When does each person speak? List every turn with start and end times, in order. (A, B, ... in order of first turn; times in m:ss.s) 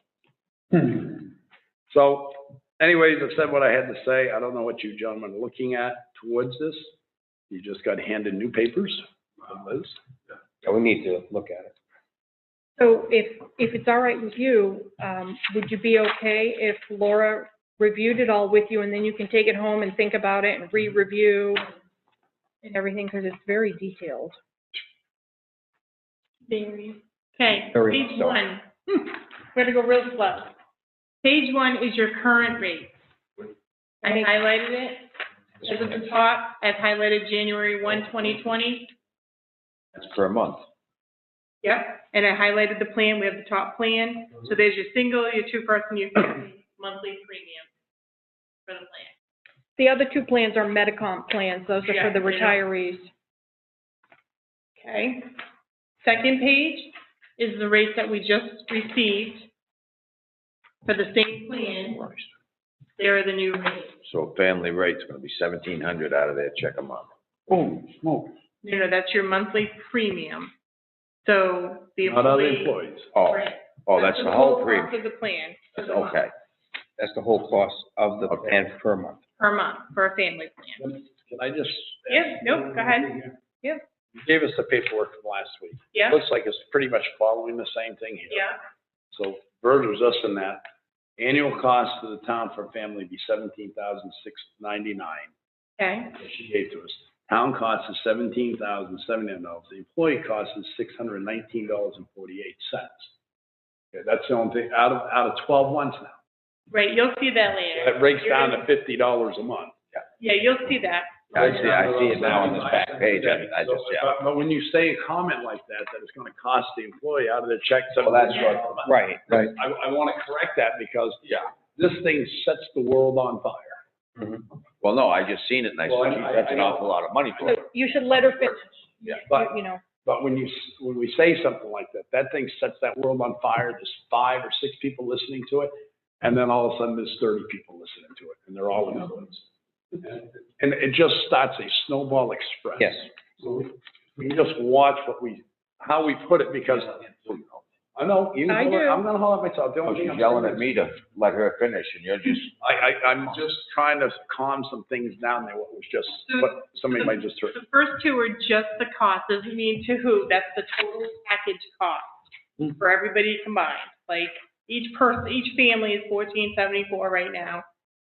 0:00.7-0:01.2 A
0:01.9-0:06.9 A
0:07.5-0:10.0 A
0:10.6-0:11.7 B
0:12.8-0:21.7 C
0:22.6-0:24.3 C
0:26.5-0:30.5 D
0:27.7-0:28.4 B
0:31.2-0:32.9 D
0:34.0-0:35.1 D
0:35.6-0:38.9 D
0:39.9-0:40.6 E
0:41.6-0:47.7 D
0:48.7-0:49.1 D
0:49.8-0:53.1 C
0:51.9-0:52.6 D
0:54.8-0:55.3 D
0:56.0-0:59.5 D
1:00.8-1:02.0 D
1:02.0-1:02.2 E
1:03.0-1:04.0 D
1:04.0-1:07.1 E
1:07.5-1:08.3 A
1:08.6-1:10.5 D
1:11.2-1:12.8 D
1:12.0-1:13.1 A
1:13.1-1:14.9 E
1:13.3-1:16.3 D
1:15.8-1:16.3 E
1:17.0-1:19.2 B
1:19.4-1:20.8 D
1:20.8-1:23.3 A
1:22.1-1:23.8 D
1:24.1-1:28.5 A
1:25.9-1:26.2 D
1:28.3-1:28.6 D
1:29.1-1:30.6 A
1:31.2-1:35.3 A
1:35.8-1:36.1 D
1:36.1-1:43.1 A
1:43.9-1:46.2 A
1:46.7-1:48.6 D
1:47.8-1:49.7 A
1:50.2-1:51.2 D
1:51.3-1:54.1 E
1:51.3-2:03.8 A
1:58.1-1:58.6 E
1:58.8-1:59.5 B
2:04.8-2:07.6 E
2:05.8-2:06.8 A
2:07.4-2:08.6 C
2:07.9-2:08.2 D
2:09.0-2:09.5 A
2:09.2-2:09.8 C
2:10.0-2:19.4 A
2:20.0-2:26.9 A
2:27.2-2:27.6 E
2:27.9-2:30.7 A
2:28.5-2:29.0 C
2:29.8-2:32.5 E
2:32.6-2:37.6 A
2:36.3-2:47.6 D